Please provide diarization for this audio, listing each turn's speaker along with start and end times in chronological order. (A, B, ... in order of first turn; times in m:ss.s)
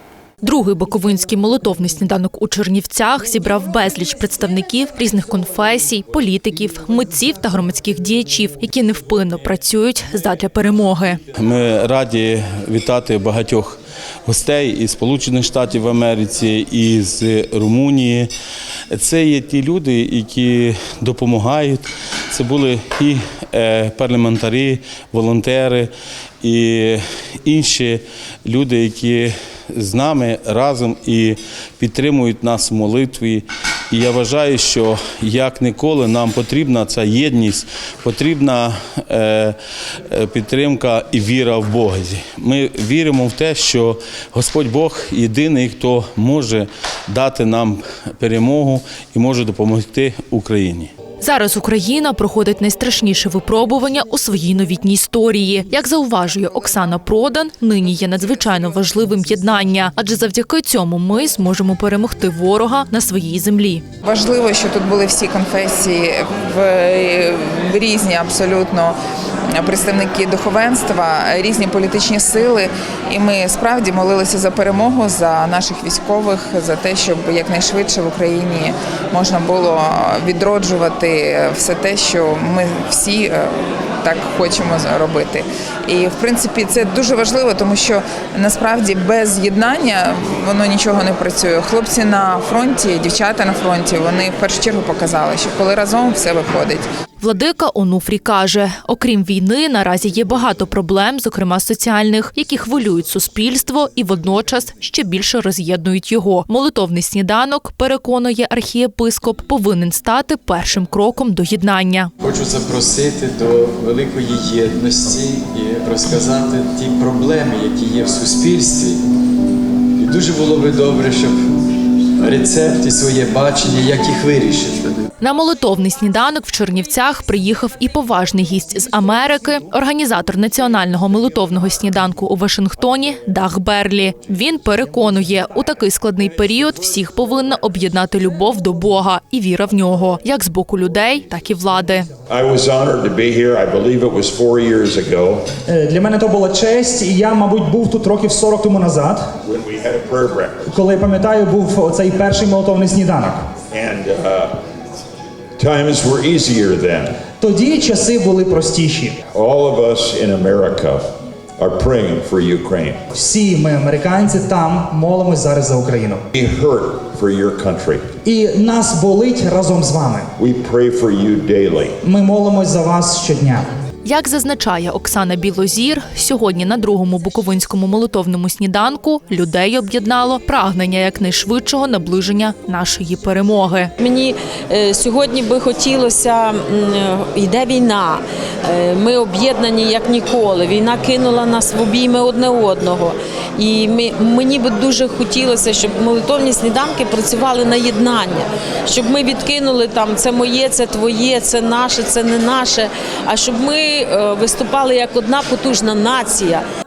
0:00.4-0:11.2 A
0:11.3-0:18.3 B
0:18.9-0:25.9 B
0:26.4-0:39.5 B
0:40.1-0:50.9 B
0:51.2-1:03.8 A
1:04.0-1:09.0 C
1:09.5-1:36.8 C
1:37.2-1:52.1 A
1:52.2-1:59.0 D
2:00.0-2:01.6 D
2:02.1-2:05.1 D
2:05.2-2:22.1 A
2:22.3-2:25.4 E
2:25.7-2:29.2 F
2:29.4-2:30.6 E
2:30.7-2:33.5 F
2:33.7-2:34.6 E
2:35.6-2:37.2 E
2:37.4-2:39.2 F
2:39.3-2:41.0 E
2:41.6-2:43.0 E
2:43.1-2:46.2 F
2:46.3-2:48.1 E
2:48.2-2:50.3 F
2:50.4-2:52.0 E
2:52.0-2:53.7 F
2:54.0-3:03.9 A
3:04.0-3:26.6 G